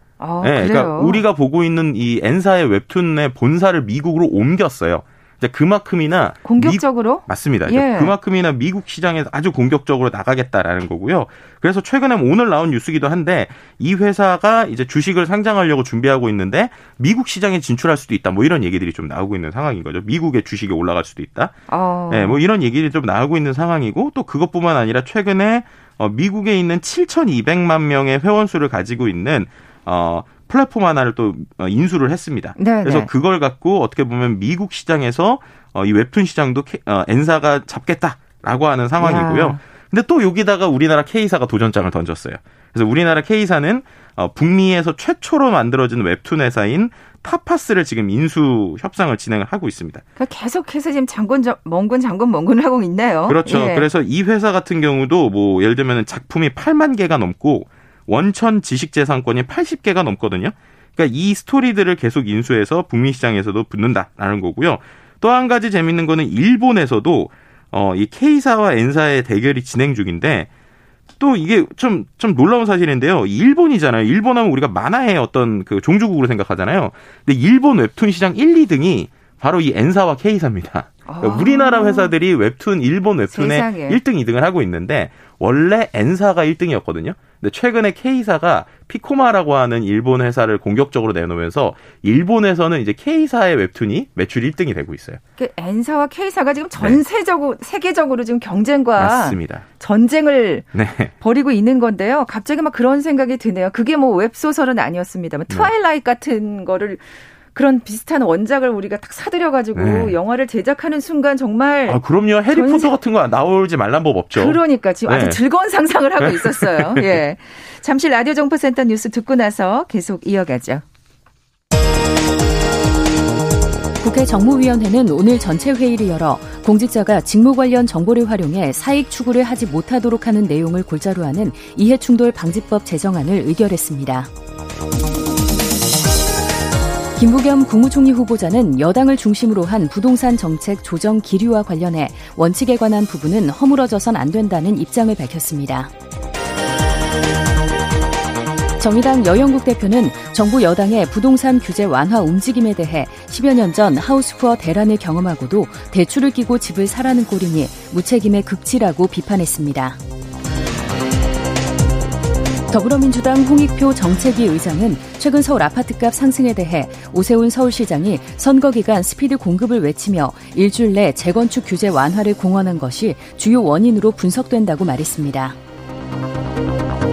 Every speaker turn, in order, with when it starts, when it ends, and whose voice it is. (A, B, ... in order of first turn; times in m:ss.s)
0:00.2-0:01.2 A
0:00.4-0:21.5 B
0:06.4-0:08.1 A
0:21.7-0:22.4 A
0:22.1-0:50.0 B
0:32.6-0:33.1 A
0:39.0-0:39.6 A
0:50.2-0:53.9 A
0:53.3-1:10.5 B
1:11.2-1:35.2 B
1:21.1-1:22.1 A
1:23.3-1:24.0 A
1:35.4-1:40.6 A
1:39.0-1:39.6 B
1:40.7-1:41.1 B
1:41.2-1:47.0 A
1:47.5-1:52.0 A
1:49.7-1:50.2 B
1:51.9-1:55.4 B
1:52.5-1:52.9 A
1:54.3-2:00.8 A
1:56.2-1:57.2 B
2:04.0-2:14.3 C
2:17.2-2:25.9 C
2:28.8-2:40.0 C
2:42.7-2:55.6 C